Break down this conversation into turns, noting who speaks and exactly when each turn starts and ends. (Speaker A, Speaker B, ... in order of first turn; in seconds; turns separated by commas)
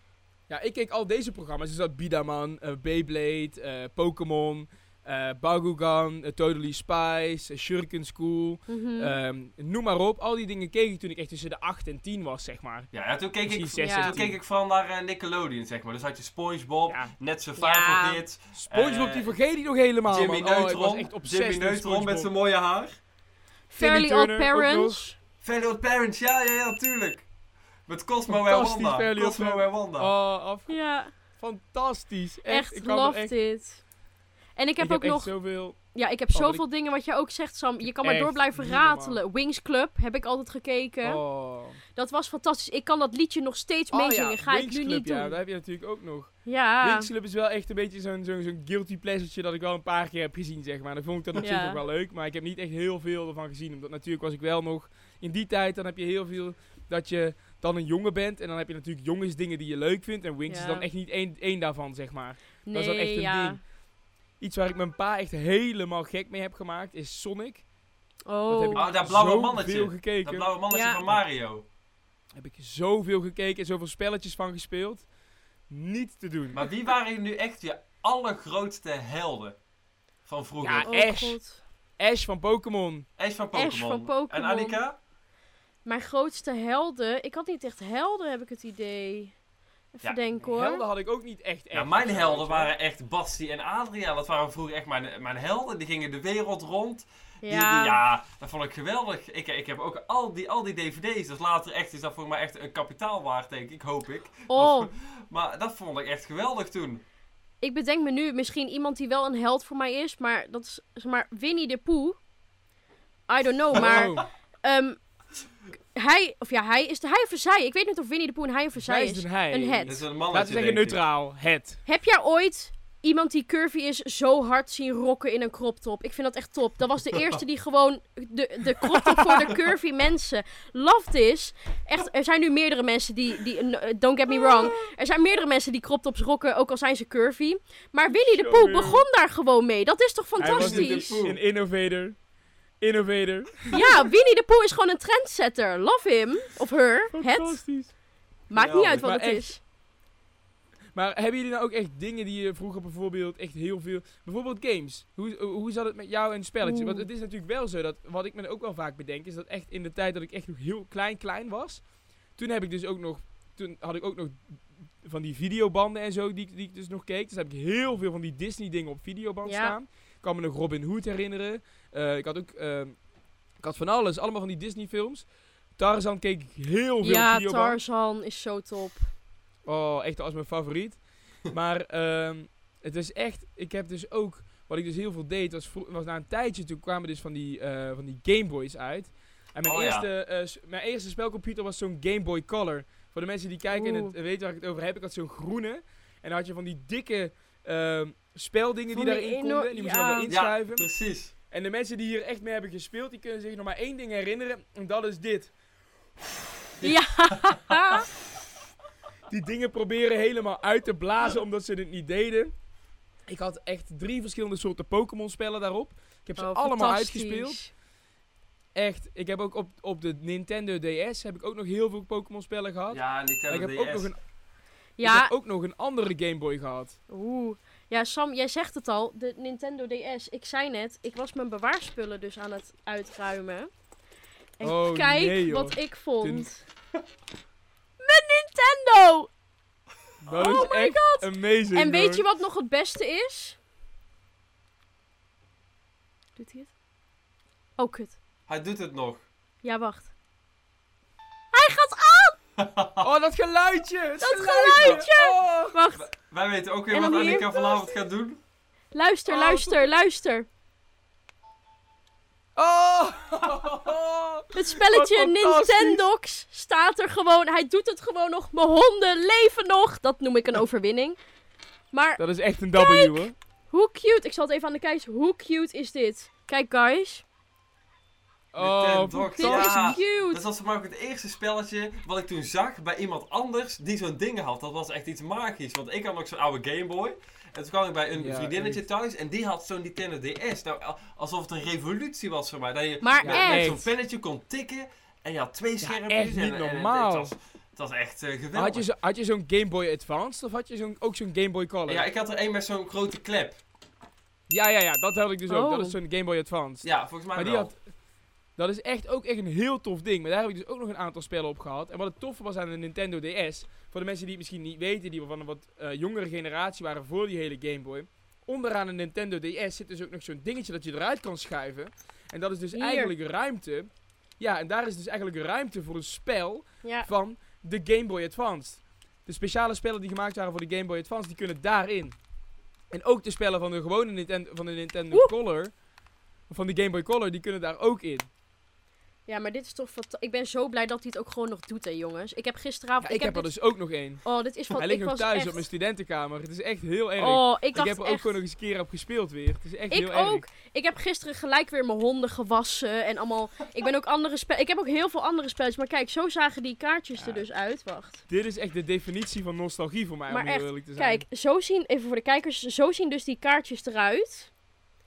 Speaker A: 0.5-12.9, Speaker B: 8.7-9.1, Speaker C: 12.9-19.3, Speaker A: 13.5-14.4, Speaker B: 13.8-14.1, Speaker A: 16.9-17.1, Speaker B: 17.6-18.2, Speaker A: 18.5-22.3, Speaker C: 20.1-23.0, Speaker B: 23.7-25.1, Speaker A: 23.8-25.0, Speaker C: 25.4-27.2, Speaker C: 27.9-30.1, Speaker A: 28.3-33.3, Speaker B: 30.7-31.1, Speaker B: 32.5-33.8, Speaker B: 34.6-35.3, Speaker A: 34.8-35.8, Speaker B: 35.9-41.2, Speaker A: 36.3-36.6, Speaker A: 37.8-39.2, Speaker A: 41.0-41.8, Speaker B: 41.9-45.4, Speaker A: 43.9-63.6, Speaker B: 46.5-47.1, Speaker B: 51.4-51.8, Speaker B: 60.5-60.9, Speaker B: 62.7-63.6, Speaker A: 64.4-67.6, Speaker B: 68.3-68.9, Speaker A: 68.5-70.5, Speaker C: 68.7-71.6, Speaker B: 70.7-71.0, Speaker A: 72.3-75.0, Speaker A: 75.7-76.6, Speaker C: 76.5-79.6, Speaker C: 80.2-80.9, Speaker A: 80.6-81.4, Speaker B: 80.8-81.6, Speaker A: 82.0-83.0, Speaker C: 83.2-85.0, Speaker B: 83.5-84.8, Speaker B: 85.8-89.3, Speaker B: 89.9-90.8, Speaker A: 90.4-92.7, Speaker C: 91.7-107.0, Speaker B: 97.4-98.0, Speaker B: 104.5-104.9, Speaker B: 107.6-112.2, Speaker B: 113.3-115.0, Speaker A: 113.7-114.2, Speaker C: 113.7-114.1, Speaker B: 115.9-120.0, Speaker A: 118.8-121.8, Speaker C: 119.8-121.0, Speaker B: 121.8-141.1, Speaker A: 134.4-134.8, Speaker A: 138.1-139.0, Speaker A: 140.4-142.2, Speaker C: 140.4-141.4, Speaker A: 142.8-143.8, Speaker B: 143.7-147.6, Speaker A: 147.1-147.9, Speaker B: 148.5-149.6, Speaker C: 148.5-149.1, Speaker A: 149.0-149.5, Speaker A: 150.9-161.8, Speaker B: 156.6-157.1, Speaker A: 162.4-164.4, Speaker A: 165.0-172.9, Speaker B: 169.4-169.7, Speaker A: 173.6-175.2, Speaker A: 175.8-177.8, Speaker B: 177.0-179.1, Speaker A: 179.7-200.8, Speaker C: 189.6-190.1, Speaker B: 193.7-194.1, Speaker B: 198.9-200.3, Speaker C: 200.3-201.3, Speaker A: 201.5-205.5, Speaker C: 206.8-207.7, Speaker B: 206.8-208.1, Speaker A: 209.3-212.5, Speaker A: 213.3-217.6, Speaker B: 216.4-217.7, Speaker A: 218.7-224.2, Speaker C: 222.9-224.1, Speaker B: 225.0-225.3, Speaker A: 225.0-227.0, Speaker B: 227.1-233.7, Speaker B: 234.6-236.6, Speaker A: 234.6-236.5, Speaker B: 238.0-239.3, Speaker A: 240.2-242.2, Speaker B: 240.3-243.6, Speaker B: 246.4-246.7, Speaker B: 247.8-248.2, Speaker C: 248.5-249.2, Speaker B: 249.6-250.1, Speaker B: 251.5-252.4, Speaker C: 252.6-253.1, Speaker A: 253.0-255.8, Speaker B: 254.2-256.1, Speaker C: 256.0-258.4, Speaker B: 256.9-257.9, Speaker B: 258.9-260.5, Speaker A: 259.3-259.9, Speaker A: 262.6-266.0, Speaker B: 264.5-271.2, Speaker B: 271.9-272.2, Speaker A: 272.2-273.3, Speaker B: 272.7-277.2, Speaker A: 278.5-280.0, Speaker C: 278.6-298.8, Speaker B: 279.4-280.4, Speaker A: 288.1-288.8, Speaker B: 293.0-293.8, Speaker A: 293.2-293.9, Speaker A: 295.8-297.3, Speaker A: 298.5-302.0, Speaker C: 301.9-303.6, Speaker A: 304.5-307.8, Speaker B: 305.5-305.9, Speaker C: 306.8-307.7, Speaker A: 308.6-332.1, Speaker B: 322.7-323.1, Speaker A: 332.9-335.7, Speaker A: 336.5-338.3, Speaker B: 339.3-343.5, Speaker A: 343.0-344.2, Speaker B: 344.2-345.6, Speaker A: 344.7-350.4, Speaker B: 347.2-348.4, Speaker B: 349.9-358.2, Speaker A: 357.2-357.4, Speaker A: 358.3-361.2, Speaker B: 360.3-364.5